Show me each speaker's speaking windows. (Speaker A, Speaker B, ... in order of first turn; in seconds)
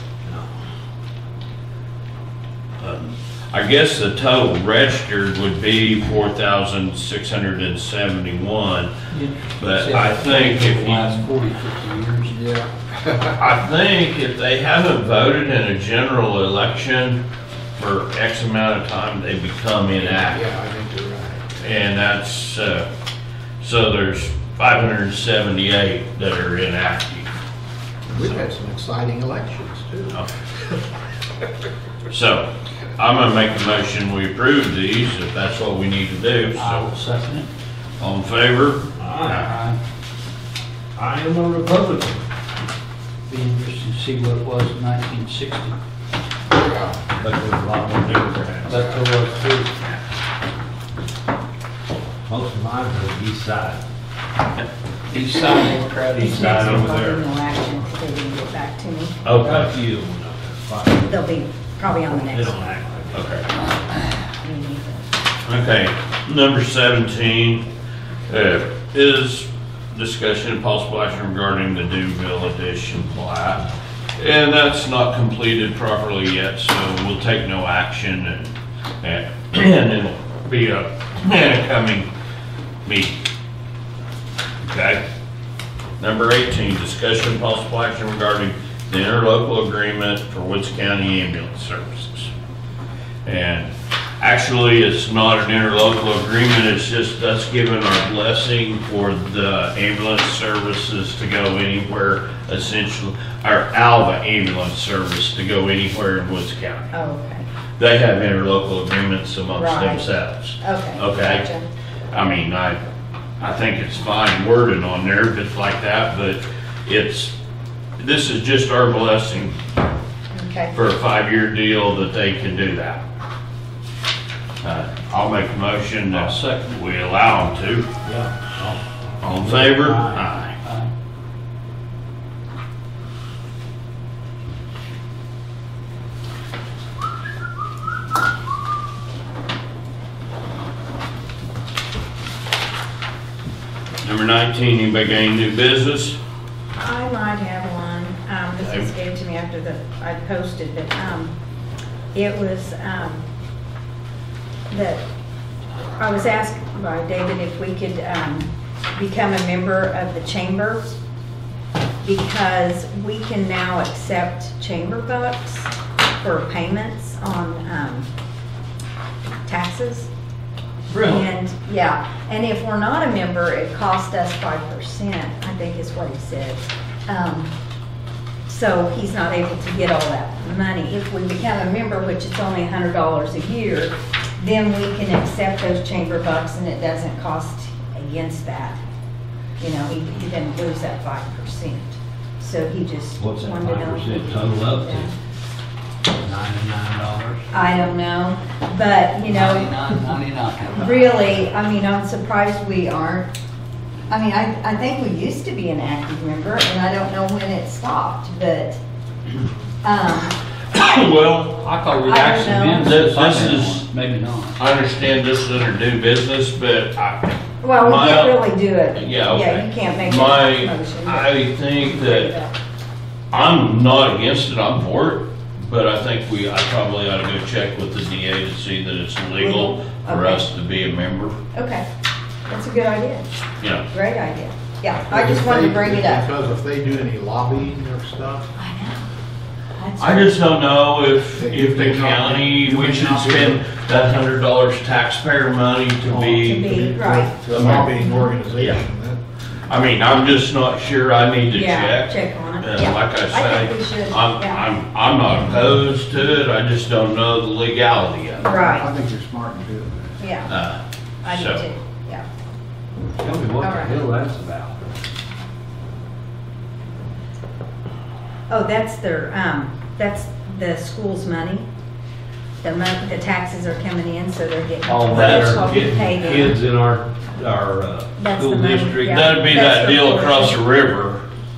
Speaker A: 2.8-8.9, 9.6-11.3, 13.4-17.2, 17.8-20.4, 21.6-22.9, 23.6-27.3, 32.1-36.9, 38.0-39.5, 59.2-59.7, 63.1-63.5, 65.5-67.7, 68.3-82.1, 82.8-83.2, 84.6-85.0, 86.0-92.3, 93.2-106.9, 107.8-111.5, 112.1-112.8, 113.4-117.3, 118.0-119.6, 120.7-123.0, 124.6-127.9, 129.2-130.6, 144.0-146.2, 148.6-148.9, 210.7-211.7, 212.7-213.9, 214.6-218.4, 218.9-222.3, 223.3-231.4, 233.6-233.9, 240.0-246.8, 247.5-247.9, 248.6-248.8, 249.7-258.6, 260.5-261.6, 275.1-275.6, 279.0-281.2
Speaker B: 9.1-12.4, 36.5-37.5, 39.3-39.8, 43.3-45.8, 48.6-49.7, 55.1-56.5, 126.1-126.8, 130.6-130.9, 199.3-201.2, 211.6-214.6
Speaker C: 12.3-13.3, 19.9-21.4, 28.1-30.2, 46.5-47.0, 235.1-238.5, 241.3-243.6, 246.0-249.2, 258.5-260.2
Speaker D: 39.0-39.5, 41.0-42.2, 47.2-49.0, 52.3-53.8, 56.2-57.2, 59.4-61.1, 62.2-63.3, 128.0-130.3, 170.9-171.2, 193.2-195.1, 196.1-197.5, 263.2-264.9, 274.9-279.2
Speaker E: 56.2-59.2, 61.1-62.6, 64.4-65.1, 106.9-107.5, 109.5-110.1, 110.6-111.7, 120.3-120.7, 146.8-151.3, 152.1-153.2, 154.7-155.0, 156.0-160.9, 162.0-168.1, 169.5-170.1, 171.0-177.5, 178.5-188.8, 189.6-195.1, 197.5-199.8, 200.7-203.3, 204.1-208.8, 209.8-210.4, 212.0-212.9, 217.6-222.5, 229.3-230.5, 231.5-231.8, 232.5-233.3, 233.9-236.3, 238.6-239.1, 239.8-240.3, 246.3-247.5, 251.5-254.7, 258.4-259.0, 260.2-260.5, 261.2-262.3, 263.6-264.0, 268.5-271.7, 272.6-276.6, 278.2-280.6